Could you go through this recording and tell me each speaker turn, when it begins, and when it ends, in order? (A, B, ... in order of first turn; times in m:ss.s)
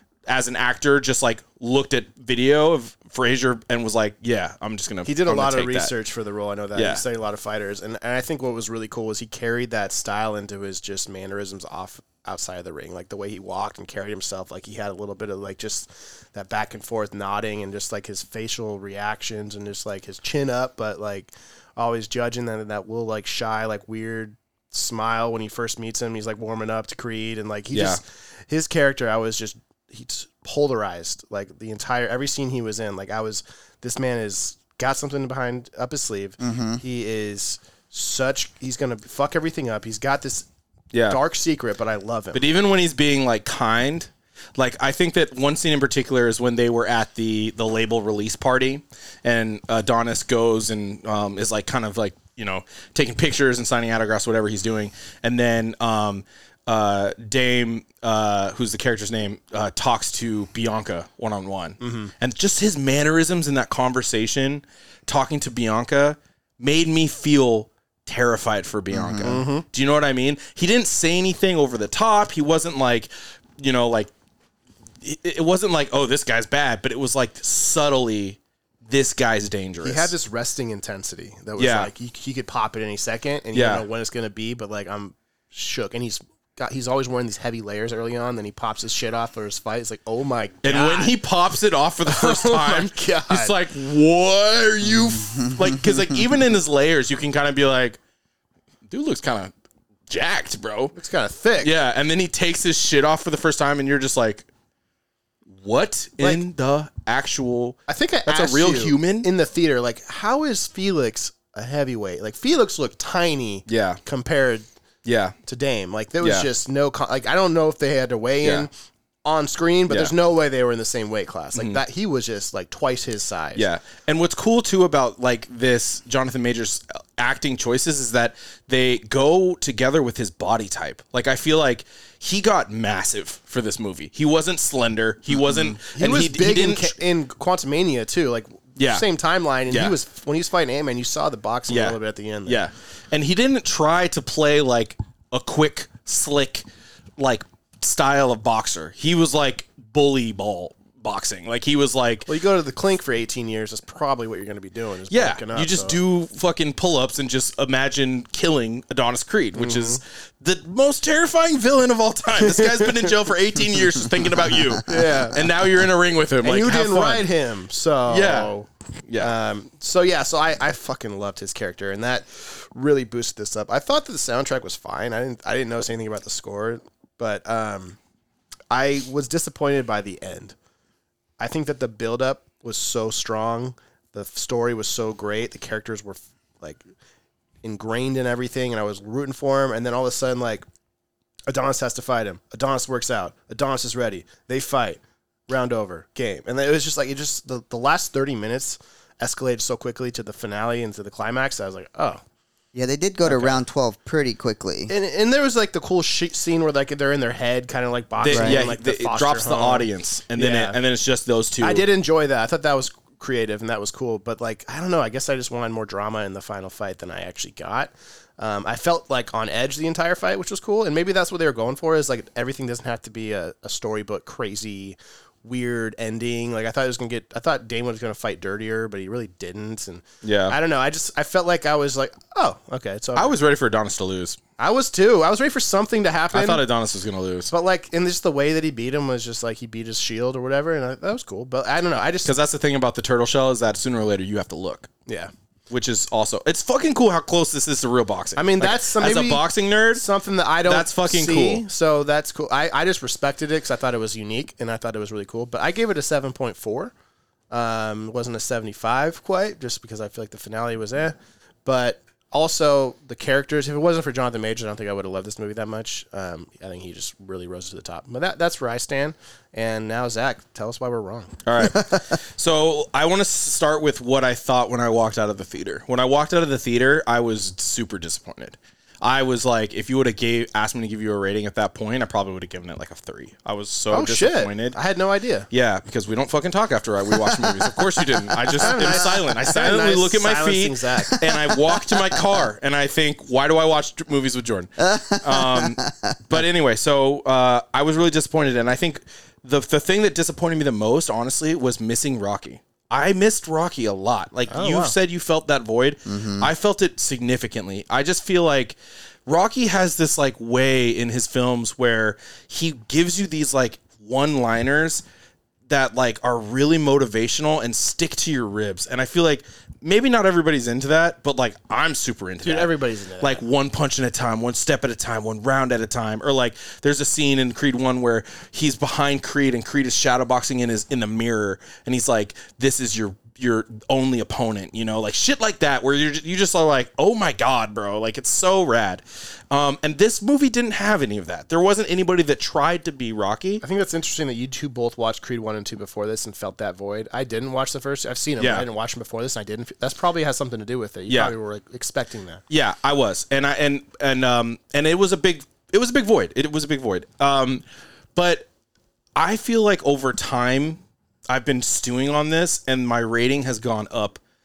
0:00.3-0:05.9 A
0:05.0-0:40.5 B
0:06.8-0:07.0 A
0:27.7-0:28.0 A
0:36.4-0:36.8 C
0:40.9-0:41.2 A
0:41.1-0:42.4 B
0:42.3-1:14.1 A
1:01.8-1:02.1 B
1:08.9-1:09.4 C
1:09.2-1:09.7 B
1:15.0-1:20.1 A
1:19.8-1:31.2 B
1:21.6-1:21.9 A
1:23.5-1:23.8 A
1:30.6-1:38.0 A
1:32.0-1:33.5 B
1:38.9-1:39.5 A
1:40.1-1:40.9 A
1:41.0-1:41.7 B
1:41.6-1:44.5 A
1:45.5-1:49.3 A
1:47.9-1:54.7 B
1:53.7-1:54.0 A
1:55.0-1:55.4 A
1:55.4-1:58.7 B
1:56.2-1:56.5 A
1:58.4-1:58.7 A
1:59.2-2:03.7 B
1:59.9-2:00.1 A
2:01.6-2:01.8 A
2:03.6-2:17.0 A
2:15.4-2:15.8 C
2:15.9-2:22.6 B
2:18.8-2:19.0 A
2:19.7-2:20.0 A
2:21.7-2:32.3 A
2:32.3-2:36.0 B
2:35.1-2:47.3 A
2:39.6-2:40.0 B
2:42.4-2:43.1 B
2:44.8-2:45.4 B
2:46.4-2:48.7 B
2:48.1-2:48.5 A
2:49.1-2:49.3 A
2:49.2-2:58.0 B
2:58.7-3:00.6 B
3:01.4-3:06.8 B
3:07.6-3:10.7 B
3:11.5-3:22.2 B
3:22.7-3:24.9 C
3:23.2-3:23.6 B
3:24.9-3:30.8 B
3:28.2-3:31.9 A
3:28.3-3:28.6 C
3:31.6-3:53.4 B
3:50.2-3:50.6 A
3:53.2-3:54.4 A
3:54.6-3:56.6 B
3:56.3-3:57.5 A
3:57.5-4:02.3 B
4:02.2-4:04.9 A
4:05.1-4:05.3 B
4:05.7-4:10.0 A
4:08.4-4:16.9 B
4:10.6-4:11.6 A
4:17.5-4:31.4 B
4:31.4-4:44.8 A
4:43.9-4:45.5 B
4:45.5-5:15.0 A
4:47.3-4:47.8 C
4:48.6-4:51.2 B
4:48.8-4:49.1 C
4:51.2-4:52.2 C
4:54.8-4:56.2 C
5:04.5-5:05.0 B
5:06.1-5:06.5 C
5:15.7-5:43.6 A
5:22.4-5:23.4 B
5:43.6-5:52.4 B
5:48.4-5:48.7 A
5:51.1-5:51.4 A
5:52.5-5:57.6 A
5:58.2-5:58.5 A
5:59.2-6:04.2 A